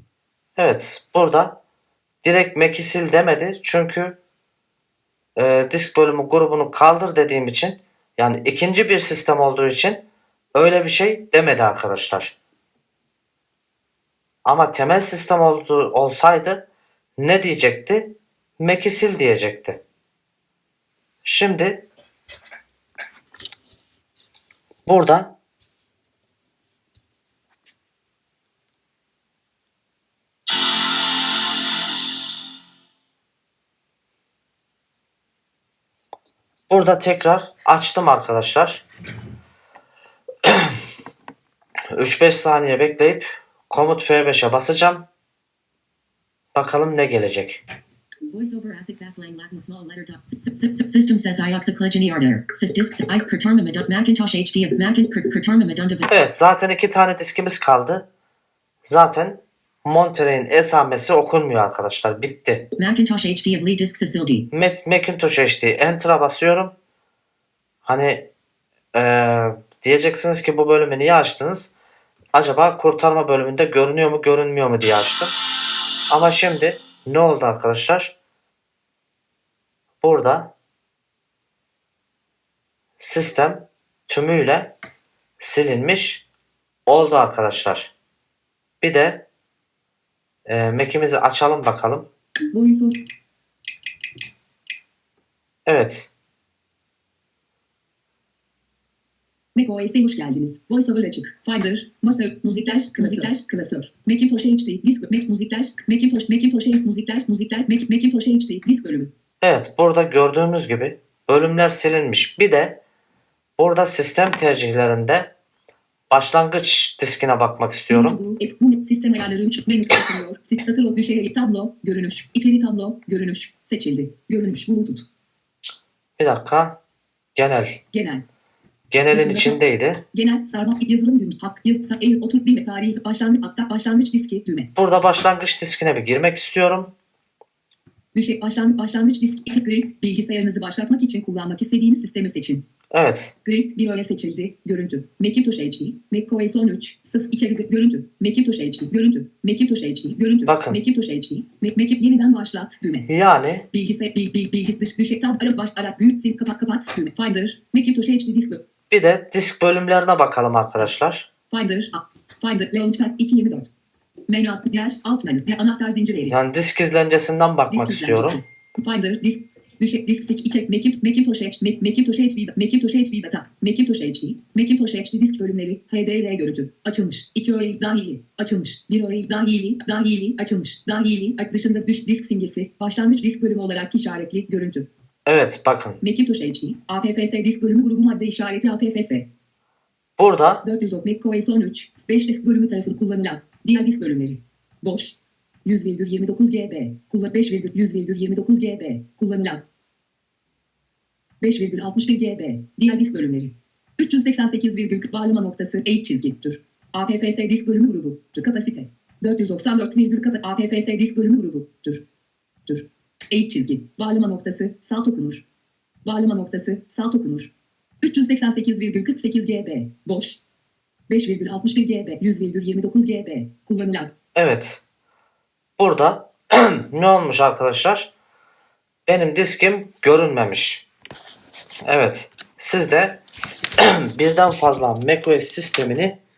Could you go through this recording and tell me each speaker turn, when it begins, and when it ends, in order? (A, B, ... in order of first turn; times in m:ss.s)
0:00.6-0:01.6 A
0:02.2-0:04.2 A
0:05.4-0:10.0 A
0:10.5-0:12.3 A
0:14.4-0:16.6 A
0:17.2-0:19.8 A
0:21.2-0:21.9 A
0:24.8-0:25.3 A
0:36.7-0:38.8 A
0:40.4-0:40.8 A
0:41.9-0:45.1 A
0:46.5-0:47.6 A
0:48.3-0:56.1 B
0:56.1-0:58.1 A
0:58.8-1:02.7 A
1:02.8-1:04.5 B
1:04.5-1:06.7 A
1:07.8-1:08.3 A
1:08.9-1:11.7 A
1:12.3-1:15.3 A
1:16.1-1:18.1 A
1:20.0-1:20.5 A
1:23.0-1:24.7 A
1:25.4-1:26.2 A
1:26.8-1:27.9 A
1:28.8-1:29.2 A
1:30.4-1:32.1 A
1:32.5-1:33.0 C
1:35.6-1:36.1 A
1:39.5-1:49.1 C
1:43.0-1:43.3 B
1:49.4-1:52.8 A
1:53.6-1:55.3 A
1:56.1-1:58.2 A
1:57.9-2:05.0 C
2:06.2-2:06.8 A
2:07.3-2:07.8 A
2:07.9-2:08.2 C
2:08.9-2:10.0 A
2:09.1-2:09.6 C
2:10.1-2:14.7 C
2:14.8-2:16.9 A
2:18.1-2:22.6 C
2:22.9-2:23.3 A
2:23.4-2:33.1 C
2:30.4-2:30.8 A
2:33.1-2:33.6 A
2:33.7-2:38.6 C
2:38.9-2:41.3 A
2:41.5-2:43.7 C
2:44.3-2:46.4 C
2:46.3-2:48.4 A
2:47.7-3:04.9 C
3:05.2-3:06.0 A
3:06.0-3:09.3 C
3:10.2-3:10.6 A
3:10.6-3:19.6 C
3:21.4-3:32.0 C
3:32.6-3:35.4 C
3:36.0-3:37.5 C
3:38.0-3:40.4 C
3:41.1-3:44.1 C
3:44.3-3:44.8 A
3:45.8-3:48.1 A
3:49.0-3:50.8 A
3:51.8-3:53.2 A
3:53.8-3:56.2 A